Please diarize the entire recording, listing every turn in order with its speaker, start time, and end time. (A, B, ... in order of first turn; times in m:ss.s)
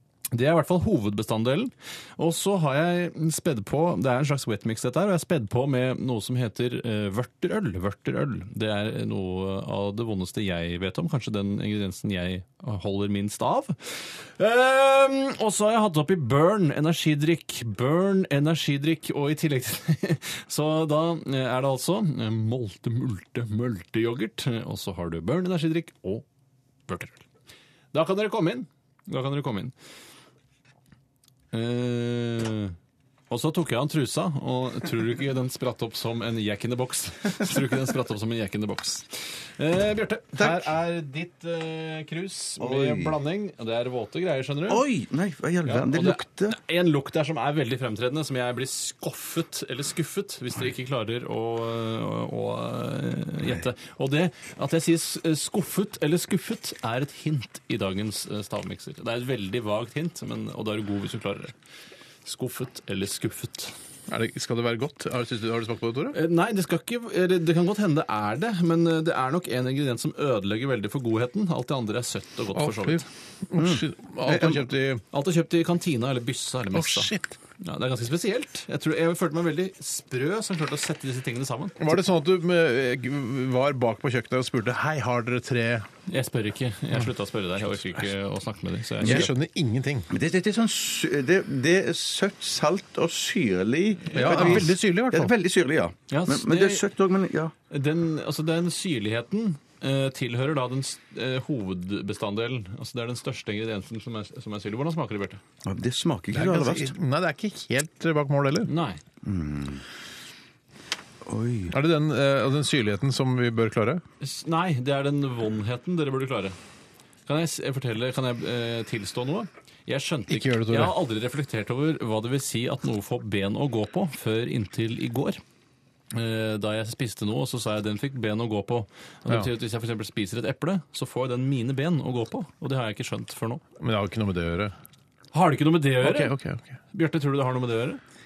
0:00.3-0:26.2 A
0:26.9-0:27.2 A
0:27.9-0:29.7 A
0:31.5-0:32.8 A
0:33.3-0:44.8 A
0:40.4-0:40.6 B
0:42.6-0:43.2 B
0:44.7-0:46.6 B
0:45.6-1:01.5 A
1:02.2-1:03.7 A
1:04.1-1:06.2 C
1:06.1-1:13.0 A
1:12.5-1:15.0 C
1:13.6-1:14.6 B
1:15.1-1:21.9 A
1:16.7-1:17.4 C
1:21.8-1:25.9 C
1:26.1-1:29.3 A
1:29.0-1:30.1 C
1:30.1-1:37.5 B
1:34.1-1:34.6 A
1:34.1-1:35.3 C
1:36.1-1:36.8 A
1:37.7-1:45.4 A
1:45.6-1:46.9 B
1:46.3-1:48.7 C
1:48.7-1:49.0 A
1:49.2-1:49.8 B
1:51.2-1:51.8 B
1:51.7-1:54.0 C
1:54.2-1:56.6 A
1:57.3-2:05.4 A
2:00.3-2:01.0 C
2:06.1-2:13.6 A
2:13.8-2:14.7 C
2:15.3-2:16.4 A
2:16.0-2:16.8 C
2:16.9-2:18.0 A